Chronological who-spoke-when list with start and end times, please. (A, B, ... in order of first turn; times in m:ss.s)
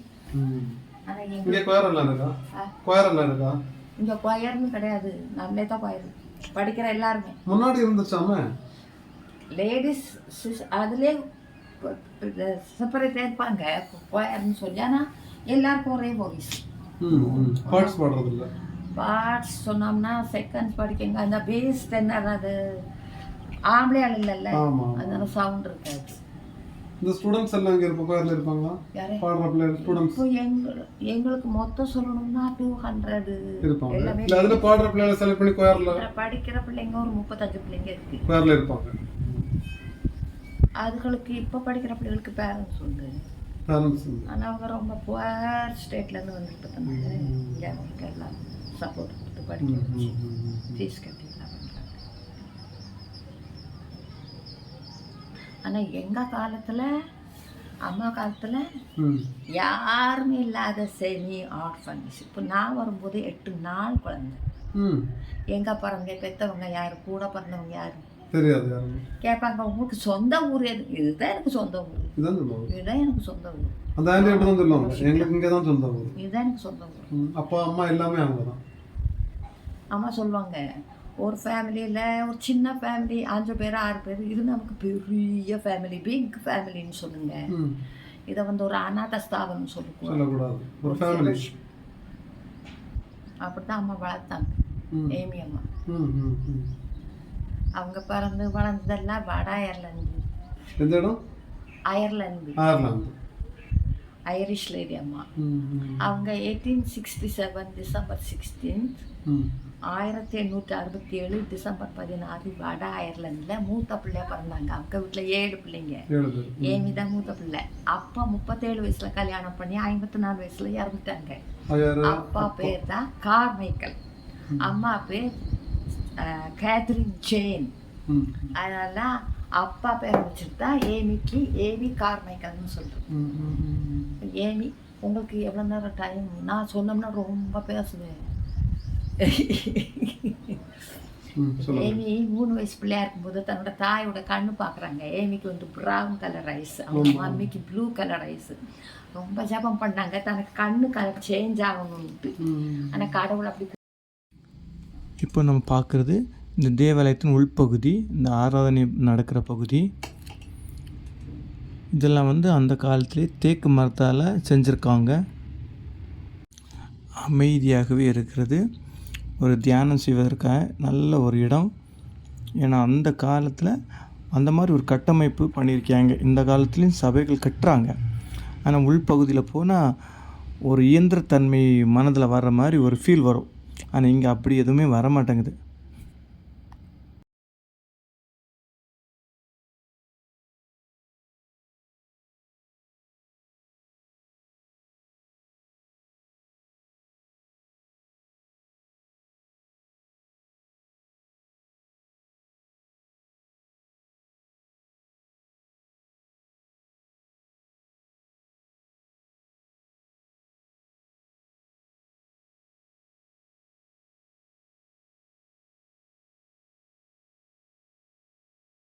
0:00.3-0:00.8 A
0:01.1-0:02.7 B
0:01.4-0:03.6 A
0:04.0-0:07.4 B
0:07.5-0:08.5 A
0:09.5-0:11.2 B
0:11.8-0:18.0 B
0:17.0-0:18.5 A
0:19.0-0:22.6 B
0:23.7-0:26.2 B
0:24.5-0:25.3 A
0:27.0-0:30.2 A
0:28.9-0:29.2 B
0:29.8-0:34.6 B
0:33.6-0:36.0 A
0:35.8-0:38.2 B
0:38.3-0:39.5 A
0:40.8-0:43.2 B
0:43.7-0:44.3 A
0:44.3-0:50.2 B
0:46.9-0:47.6 A
0:49.6-0:50.8 A
0:50.8-0:52.0 B
0:55.6-0:56.9 B
0:57.9-0:58.7 B
0:59.0-0:59.3 A
0:59.6-1:04.4 B
1:04.8-1:05.1 A
1:05.5-1:08.1 B
1:08.3-1:09.0 A
1:09.2-1:12.2 B
1:12.2-1:12.7 A
1:12.7-1:15.3 B
1:14.0-1:16.1 A
1:16.2-1:17.1 B
1:17.1-1:18.6 A
1:19.9-1:20.6 B
1:21.2-1:27.5 B
1:27.5-1:27.8 A
1:28.3-1:30.3 B
1:30.1-1:31.5 A
1:30.8-1:31.5 B
1:33.4-1:34.6 B
1:34.9-1:35.2 A
1:35.1-1:35.6 B
1:35.9-1:36.8 A
1:37.8-1:40.2 B
1:40.8-1:41.2 A
1:41.9-1:42.6 B
1:42.6-1:43.2 A
1:44.3-1:45.3 B
1:45.4-1:46.0 A
1:46.0-1:49.0 B
1:49.3-1:49.5 A
1:49.9-1:56.1 B
1:56.1-1:57.0 A
1:56.6-2:01.4 B
2:01.7-2:02.8 A
2:02.0-2:04.0 B
2:04.5-2:04.8 A
2:04.6-2:05.4 B
2:06.2-2:07.7 B
2:08.1-2:08.5 A
2:08.6-2:18.3 B
2:13.1-2:14.0 A
2:19.2-2:20.6 B
2:21.4-2:22.0 A
2:21.6-2:28.6 B
2:26.9-2:27.5 A
2:29.1-2:33.8 B
2:32.4-2:33.1 A
2:35.2-2:39.8 C
2:42.0-2:45.2 C
2:47.2-2:48.6 C
2:49.4-2:51.7 C
2:52.6-2:53.7 C
2:54.4-2:57.9 C
2:58.7-2:59.8 C
3:00.7-3:05.6 C